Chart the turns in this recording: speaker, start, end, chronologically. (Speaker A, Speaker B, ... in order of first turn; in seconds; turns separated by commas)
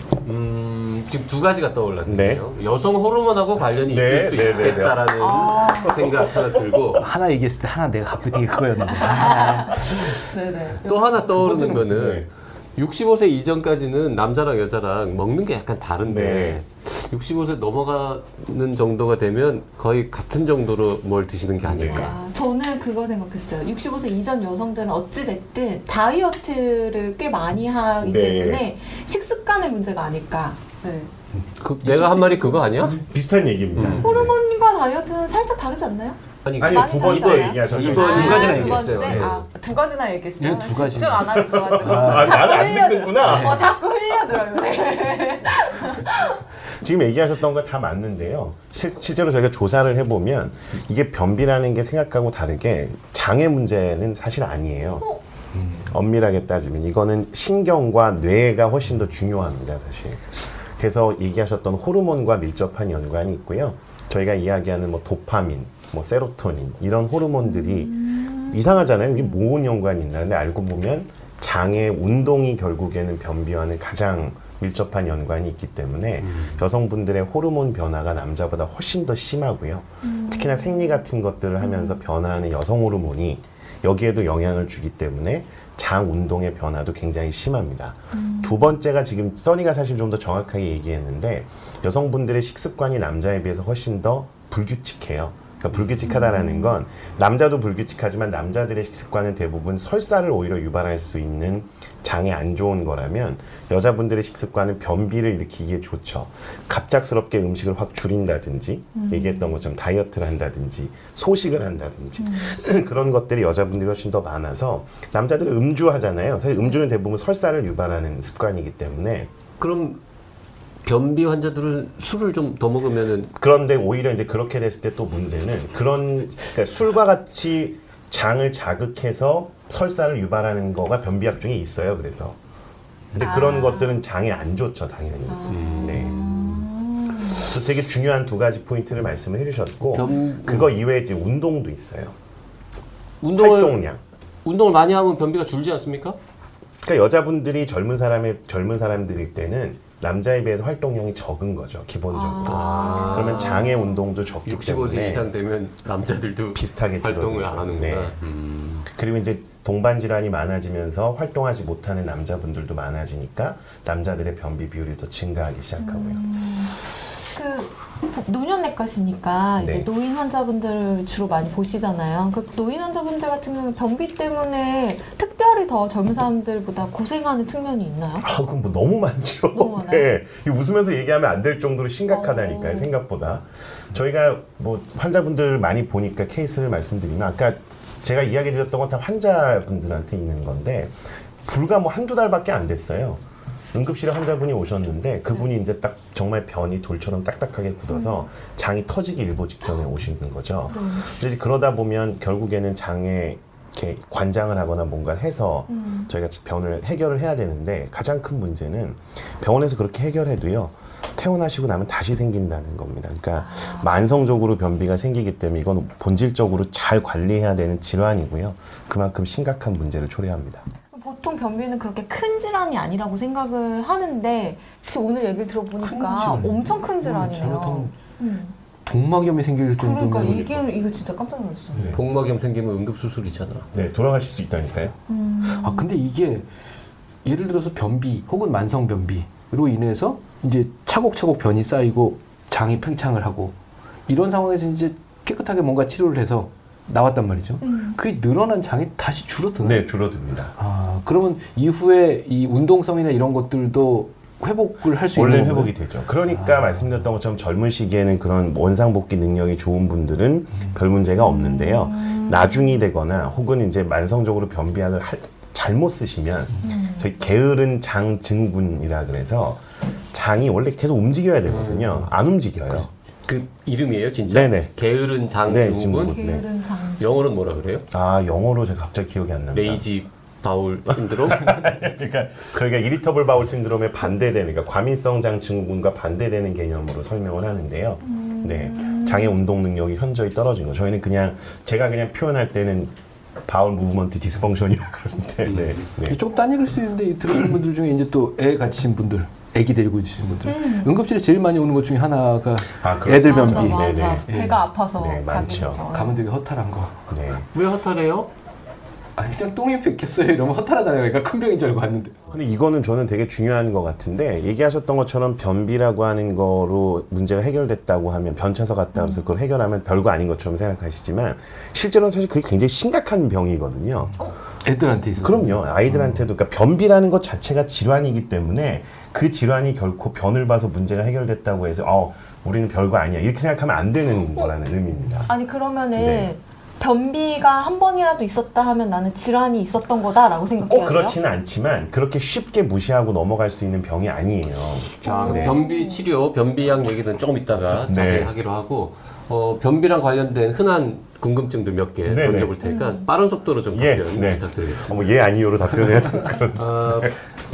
Speaker A: 0.2-7.0, Speaker B: 2.0-2.5, Speaker B: 3.8-5.1, Speaker C: 5.1-6.2, Speaker B: 6.1-6.8, Speaker D: 7.0-10.2, Speaker C: 9.0-11.3, Speaker A: 10.8-22.2, Speaker D: 10.9-12.2, Speaker B: 11.9-12.3, Speaker B: 16.1-16.6, Speaker B: 21.6-22.2, Speaker C: 21.8-31.1, Speaker B: 28.0-28.6, Speaker D: 31.4-33.0, Speaker A: 31.6-33.0, Speaker C: 32.3-32.7, Speaker B: 33.0-34.4, Speaker A: 33.8-34.2, Speaker C: 34.0-46.4, Speaker A: 36.4-39.4, Speaker B: 36.6-39.4, Speaker D: 37.7-39.2, Speaker D: 40.4-42.6, Speaker B: 41.3-43.7, Speaker D: 43.2-43.7, Speaker B: 46.8-55.1, Speaker B: 55.8-60.2, Speaker B: 60.8-119.3, Speaker C: 67.5-68.6, Speaker A: 76.2-76.6, Speaker C: 80.0-81.0, Speaker C: 81.6-82.0, Speaker C: 88.1-88.7, Speaker C: 96.0-96.8, Speaker C: 109.0-109.6, Speaker C: 112.2-112.6, Speaker A: 119.6-120.0, Speaker A: 120.8-123.3, Speaker B: 123.4-132.4, Speaker B: 133.1-136.7, Speaker C: 133.2-134.0, Speaker C: 135.3-137.5, Speaker A: 135.5-136.5, Speaker B: 137.3-142.2, Speaker A: 139.9-140.8, Speaker A: 143.2-143.8, Speaker B: 143.4-144.0, Speaker A: 144.4-146.2, Speaker B: 146.8-155.3, Speaker C: 152.1-154.0, Speaker A: 152.4-153.7, Speaker A: 154.5-158.9, Speaker B: 156.5-158.2, Speaker B: 158.9-166.2, Speaker C: 165.8-166.8, Speaker C: 167.3-178.3, Speaker B: 169.6-169.9, Speaker B: 178.2-193.2, Speaker C: 179.5-180.1, Speaker C: 182.1-182.9, Speaker B: 193.7-220.6, Speaker C: 197.9-198.2, Speaker C: 200.7-201.1, Speaker C: 205.7-206.1, Speaker C: 213.4-213.9, Speaker C: 220.9-228.6, Speaker D: 225.8-227.9, Speaker D: 228.8-230.6, Speaker C: 229.8-231.9, Speaker B: 231.8-232.0, Speaker A: 231.9-233.7, Speaker B: 233.7-234.9, Speaker C: 235.1-235.9, Speaker D: 235.5-236.5, Speaker D: 237.2-243.6, Speaker D: 244.1-249.9, Speaker C: 247.6-248.0, Speaker B: 249.6-250.6, Speaker D: 250.6-255.7, Speaker B: 255.1-272.9, Speaker D: 256.3-256.9, Speaker C: 261.2-262.8, Speaker C: 266.6-267.1, Speaker A: 271.5-272.1, Speaker A: 273.3-276.2, Speaker B: 274.3-274.7, Speaker B: 275.5-276.5, Speaker C: 276.1-277.2, Speaker A: 277.0-277.9, Speaker B: 277.9-279.8, Speaker A: 279.5-281.8, Speaker B: 280.9-292.9, Speaker C: 288.0-289.4, Speaker B: 293.4-296.2, Speaker A: 295.5-295.8, Speaker D: 296.1-304.6, Speaker C: 300.4-300.9, Speaker B: 302.8-304.3, Speaker C: 303.1-306.2, Speaker B: 304.9-305.9, Speaker D: 305.8-307.0, Speaker B: 307.1-307.5, Speaker A: 307.5-308.3, Speaker D: 309.2-312.2, Speaker B: 312.3-324.2, Speaker C: 319.0-319.3, Speaker D: 324.6-326.2, Speaker B: 325.2-335.3, Speaker C: 335.3-341.2, Speaker B: 336.0-336.3, Speaker B: 340.6-345.6, Speaker A: 345.0-355.1, Speaker C: 345.0-346.0, Speaker B: 347.8-348.3, Speaker B: 352.1-352.6, Speaker C: 352.6-353.1, Speaker B: 353.7-357.1, Speaker A: 356.6-357.1